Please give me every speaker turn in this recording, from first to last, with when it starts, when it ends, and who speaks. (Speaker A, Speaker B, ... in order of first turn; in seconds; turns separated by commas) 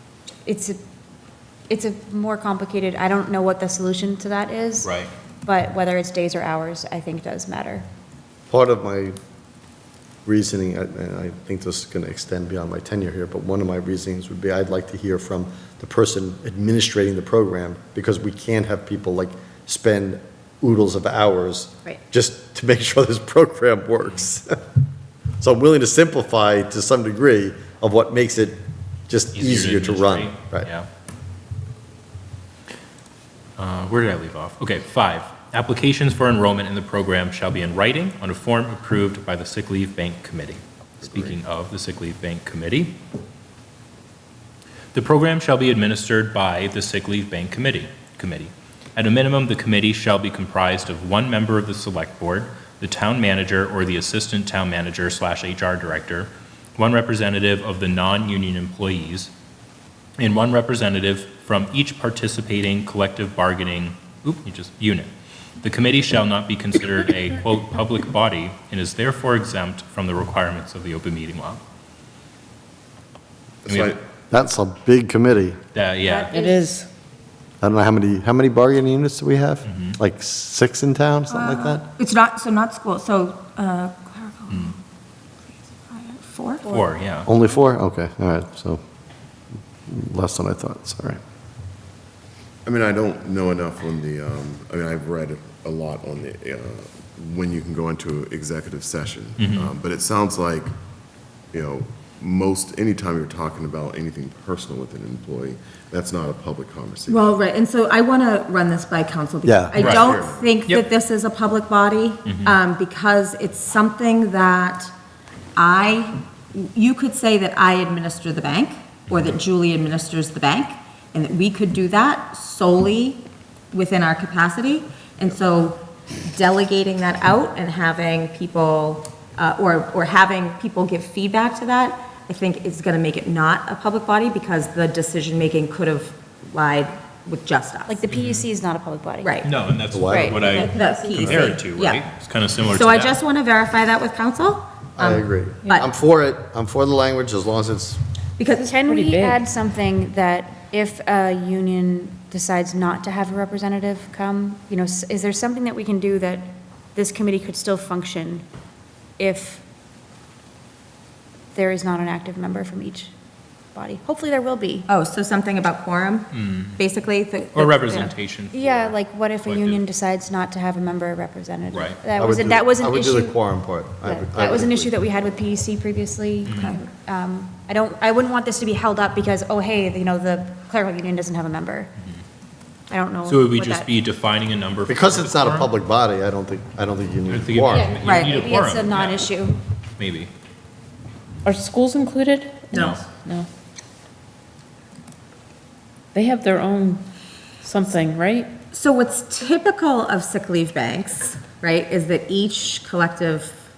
Speaker A: 0.4-0.8, Speaker A: 1.7-4.9, Speaker B: 4.8-5.1, Speaker A: 5.4-7.8, Speaker C: 8.5-9.1, Speaker C: 10.2-24.6, Speaker C: 25.4-28.6, Speaker C: 29.1-30.7, Speaker B: 29.3-30.9, Speaker B: 33.6-43.0, Speaker D: 41.0-41.4, Speaker B: 44.9-59.3, Speaker B: 60.2-65.1, Speaker B: 65.6-71.6, Speaker D: 73.6-74.0, Speaker B: 73.7-74.0, Speaker C: 74.3-75.6, Speaker B: 75.7-76.3, Speaker A: 76.0-76.7, Speaker E: 76.3-76.9, Speaker C: 77.6-81.8, Speaker B: 79.7-80.0, Speaker F: 81.3-84.8, Speaker F: 85.5-86.7, Speaker B: 86.7-87.3, Speaker C: 87.2-88.8, Speaker C: 89.9-91.2, Speaker D: 92.7-100.7, Speaker B: 99.4-99.7, Speaker D: 101.5-107.4, Speaker F: 107.1-114.9, Speaker C: 109.4-109.9, Speaker B: 109.8-110.1, Speaker D: 109.8-110.5, Speaker B: 112.2-112.6, Speaker F: 115.5-138.0, Speaker A: 137.9-139.4, Speaker B: 138.1-138.4, Speaker F: 139.2-139.5, Speaker B: 139.4-143.2, Speaker C: 139.9-140.6, Speaker A: 140.0-141.3, Speaker F: 140.5-142.0, Speaker F: 142.7-145.9, Speaker C: 145.0-148.0, Speaker F: 148.4-148.7, Speaker A: 148.6-158.4, Speaker E: 148.8-149.4, Speaker A: 159.2-159.6, Speaker A: 161.5-163.1, Speaker A: 163.7-164.9, Speaker F: 164.9-168.1, Speaker B: 166.3-166.8, Speaker B: 167.5-169.8, Speaker A: 168.5-173.4, Speaker B: 171.7-172.0, Speaker C: 172.2-174.9, Speaker A: 174.0-181.9, Speaker B: 176.4-176.7, Speaker F: 176.5-176.8, Speaker A: 182.9-183.9, Speaker B: 183.3-185.7, Speaker C: 184.9-187.9, Speaker B: 187.3-189.3, Speaker A: 187.7-189.6, Speaker F: 188.0-188.4, Speaker B: 190.0-190.3, Speaker E: 191.4-193.5, Speaker F: 192.7-193.0, Speaker B: 192.7-193.0, Speaker E: 196.1-197.1, Speaker E: 197.6-198.6, Speaker F: 198.7-203.6